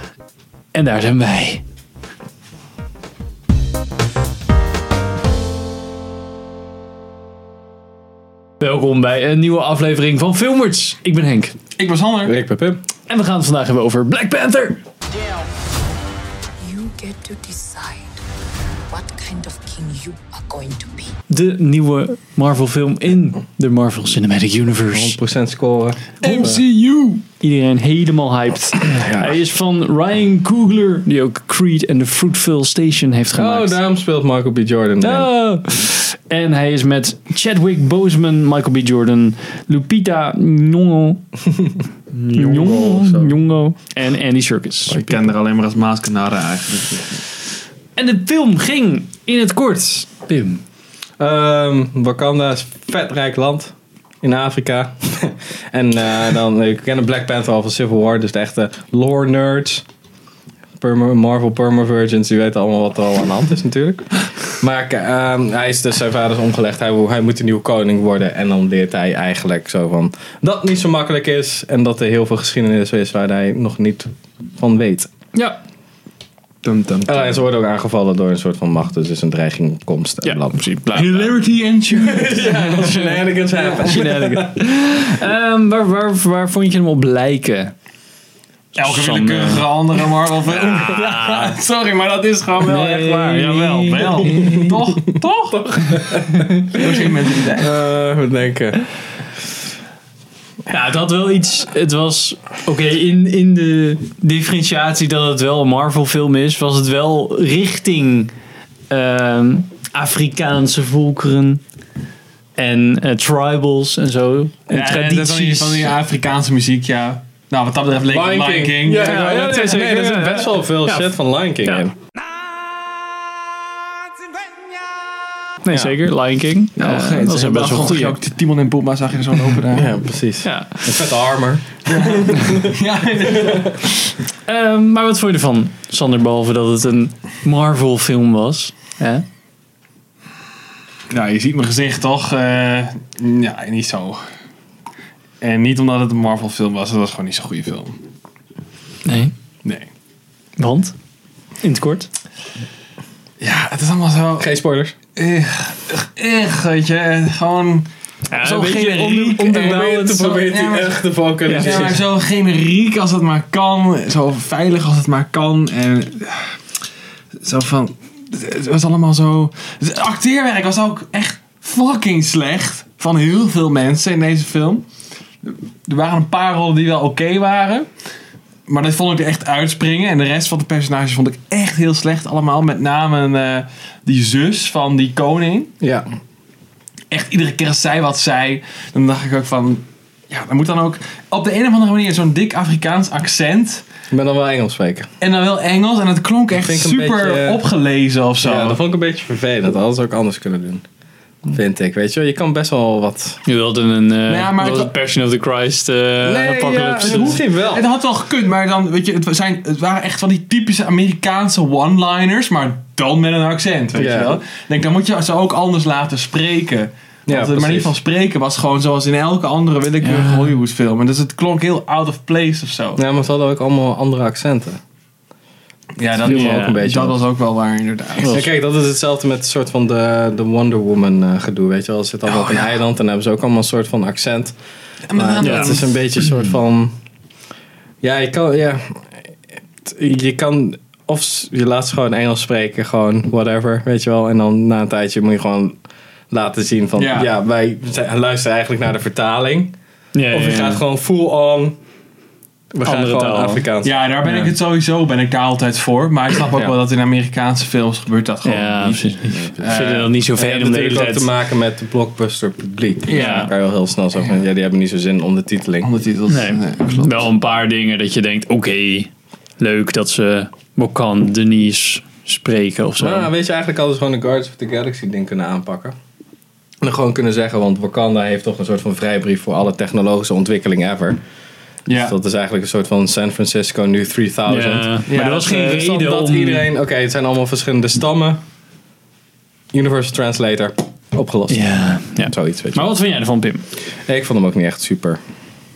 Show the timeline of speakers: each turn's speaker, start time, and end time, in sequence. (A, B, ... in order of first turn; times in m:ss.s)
0:00.7-0:01.6 A
0:08.6-0:11.5 A
0:11.8-0:12.4 B
0:12.2-0:12.8 C
0:13.1-0:14.8 A
0:16.6-0:18.2 D
0:18.9-0:21.1 D
0:21.3-0:25.2 A
0:24.9-0:26.6 C
0:26.2-0:27.2 B
0:27.4-0:33.8 A
0:28.8-0:29.4 C
0:33.4-0:35.3 C
0:35.0-0:41.2 A
0:42.1-0:43.3 B
0:42.3-0:45.0 A
0:44.9-0:47.2 B
0:48.0-0:50.6 A
0:51.2-0:59.8 C
1:00.8-1:15.1 C
1:15.3-1:15.6 A
1:16.6-1:17.4 B
1:17.1-1:20.6 C
1:20.2-1:21.4 A
1:20.9-1:24.1 B
1:21.9-1:24.6 C
1:23.8-1:27.7 A
1:28.8-1:29.7 A
1:28.8-1:36.1 B
1:30.5-1:31.6 A
1:32.6-1:34.7 A
1:35.8-1:36.4 A
1:35.9-1:37.0 C
1:36.7-1:37.7 B
1:37.6-1:38.8 C
1:40.7-1:48.3 A
1:48.9-1:51.6 A
1:52.6-1:55.9 A
1:54.7-1:59.7 B
1:58.1-2:01.9 C
1:59.0-2:01.8 A
2:05.6-2:08.2 A
2:06.8-2:10.0 B
2:09.7-2:12.6 C
2:10.4-2:11.1 A
2:11.9-2:14.0 B
2:14.5-2:19.2 A
2:21.1-2:24.2 B
2:25.4-2:28.0 B
2:29.0-2:29.3 A
2:30.6-2:31.0 A
2:31.6-2:32.1 A
2:33.4-2:34.5 B
2:34.4-2:35.0 C
2:35.2-2:46.6 B
2:38.3-2:40.4 A
2:39.4-2:42.0 C
2:41.5-2:41.9 A
2:47.4-2:54.9 B
2:55.4-2:57.9 B
2:58.7-3:05.7 B
3:05.8-3:06.1 C
3:07.1-3:13.8 B
3:14.1-3:15.1 C
3:15.2-3:18.8 B
3:16.6-3:17.6 C
3:18.4-3:20.8 C
3:21.5-3:23.4 C
3:23.5-3:27.4 A
3:24.3-3:25.0 B
3:26.2-3:27.9 C
3:27.0-3:43.0 B
3:34.0-3:34.4 C
3:37.3-3:37.9 C
3:40.0-3:40.5 A
3:43.0-3:44.8 C
3:46.0-3:48.5 B
3:46.2-3:47.2 C
3:46.3-3:46.8 A
3:48.2-3:54.6 C
3:52.3-3:52.7 B
3:55.1-3:55.9 B
3:55.2-3:57.0 C
3:55.4-3:55.8 A
3:58.0-3:59.3 C
3:59.8-4:05.8 C
4:06.3-4:09.8 C
4:07.0-4:07.3 B
4:10.1-4:10.8 A
4:10.3-4:11.8 C
4:12.7-4:14.0 C
4:12.8-4:13.7 A
4:13.8-4:20.1 B
4:14.2-4:14.5 A
4:18.4-4:21.3 A
4:19.3-4:19.8 C
4:20.4-4:25.9 C
4:23.1-4:23.5 B
4:23.1-4:23.5 A
4:25.8-4:27.3 B
4:26.3-4:33.3 A
4:33.0-4:36.0 C
4:36.8-4:41.2 C
4:41.9-4:42.2 B
4:41.9-4:48.4 C
4:44.5-4:46.7 A
4:45.1-4:45.8 B
4:49.7-4:52.9 C
4:51.5-4:53.6 A
4:54.0-4:55.2 C